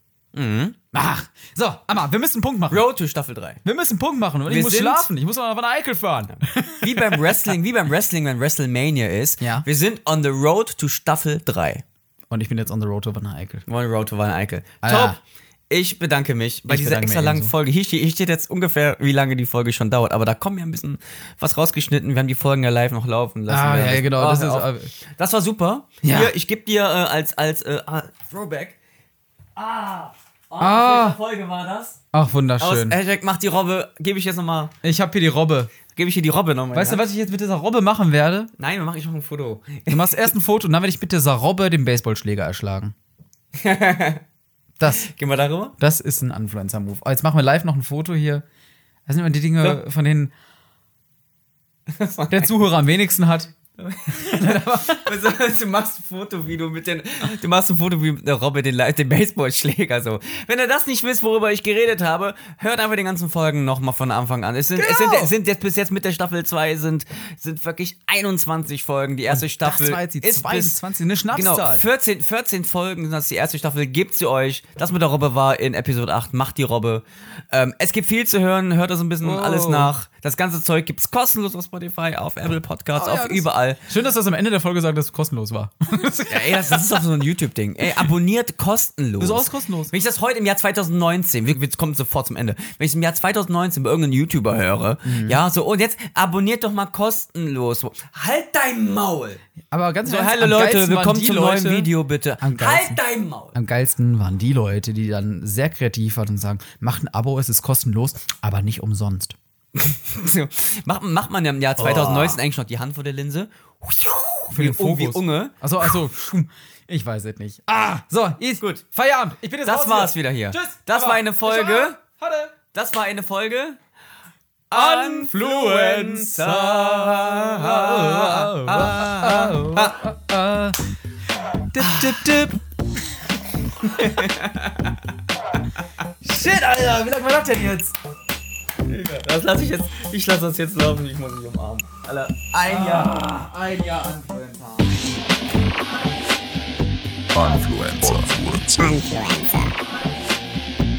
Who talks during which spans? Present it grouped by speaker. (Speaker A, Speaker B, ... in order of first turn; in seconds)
Speaker A: 0.3-0.8, 2.7-3.6, 4.5-5.1, 6.8-11.8, 13.7-15.2, 15.7-28.8, 29.6-32.0, 32.6-34.7, 35.9-37.0, 38.6-40.3, 43.6-44.2, 44.9-45.7, 51.9-52.5, 53.8-70.8, 71.3-83.8, 86.3-99.4, 100.0-103.6, 109.8-115.5, 119.7-122.0, 122.7-123.8, 124.7-130.0, 131.8-132.2, 133.8-134.9, 138.8-143.2
Speaker B: 0.9-2.9, 3.6-7.4, 9.4-9.7, 12.3-13.6, 14.8-15.2, 16.7-17.5, 23.5-24.9, 26.0-26.3, 30.6-31.2, 32.1-33.0, 34.8-35.7, 36.7-38.5, 39.9-42.9, 44.8-45.1, 45.8-48.4, 49.1-50.3, 52.3-53.5, 54.1-55.3, 64.8-65.3, 69.3-71.8, 79.2-79.9, 83.0-87.1, 89.2-89.9, 95.0-95.4, 99.7-103.0, 103.5-109.4, 111.8-112.4, 114.5-122.5, 124.7-130.8, 131.7-132.6, 133.8-134.3, 136.2-138.0, 142.6-145.0
Speaker C: 147.3-149.7